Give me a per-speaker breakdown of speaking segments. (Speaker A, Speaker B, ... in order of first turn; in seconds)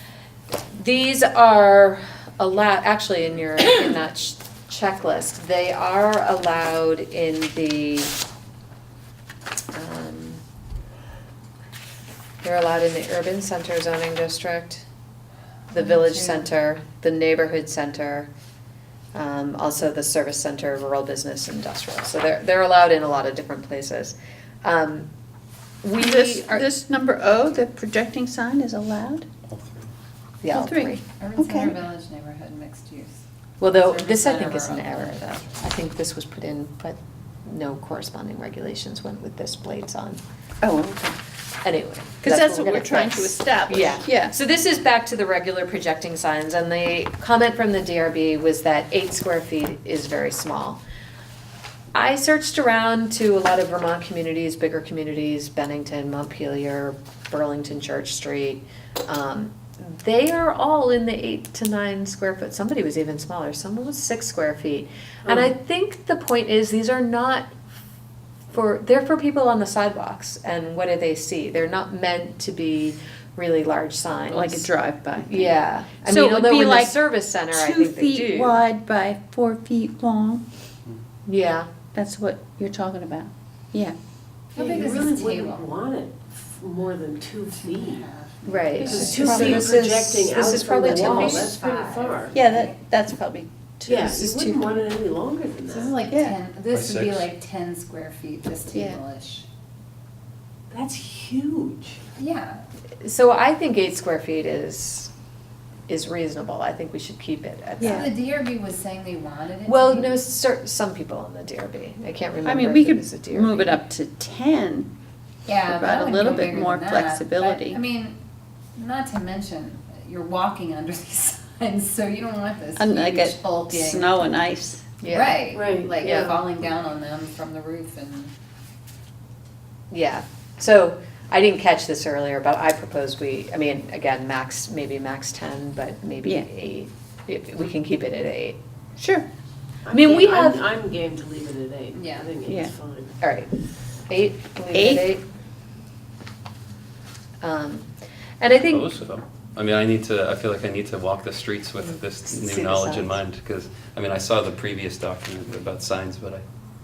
Speaker A: 0.7-8.1, 9.7-10.4, 12.4-14.9, 15.7-18.3, 19.1-25.1, 25.8-26.7, 30.4-31.0, 33.6-40.2, 41.6-50.8, 52.0-67.6, 68.5-78.6, 81.3-81.7, 88.5-91.5, 94.2-94.8, 103.0-105.1, 105.9-108.1, 109.7-113.8, 125.0-125.5, 126.0-126.4, 129.9-138.6, 139.9-140.6, 143.2-143.5, 144.1-145.2, 147.4-147.9, 148.4-148.9, 151.8-153.2
Speaker B: 15.7-16.5, 31.2-35.4, 84.5-85.7, 87.5-89.7, 90.8-92.8, 95.7-99.5, 102.2-102.7, 107.9-110.2, 115.5-118.2, 118.8-124.2, 125.0-128.3, 141.9-142.3
Speaker C: 26.0-29.3, 30.5-31.8, 40.6-41.2, 42.2-44.4, 74.3-80.4, 81.9-84.0, 89.2-89.7, 92.3-94.5, 96.1-96.4, 98.7-99.0, 107.8-108.1, 112.4-114.9, 115.7-117.8, 122.8-124.9, 139.0-139.3, 142.5-142.8, 144.7-145.1
Speaker D: 29.5-29.9, 96.7-97.3, 148.7-156.4
Speaker E: 65.2-65.5, 84.5-88.1, 88.8-92.4, 93.9-96.0, 100.7-102.0, 125.5-126.5, 139.8-143.2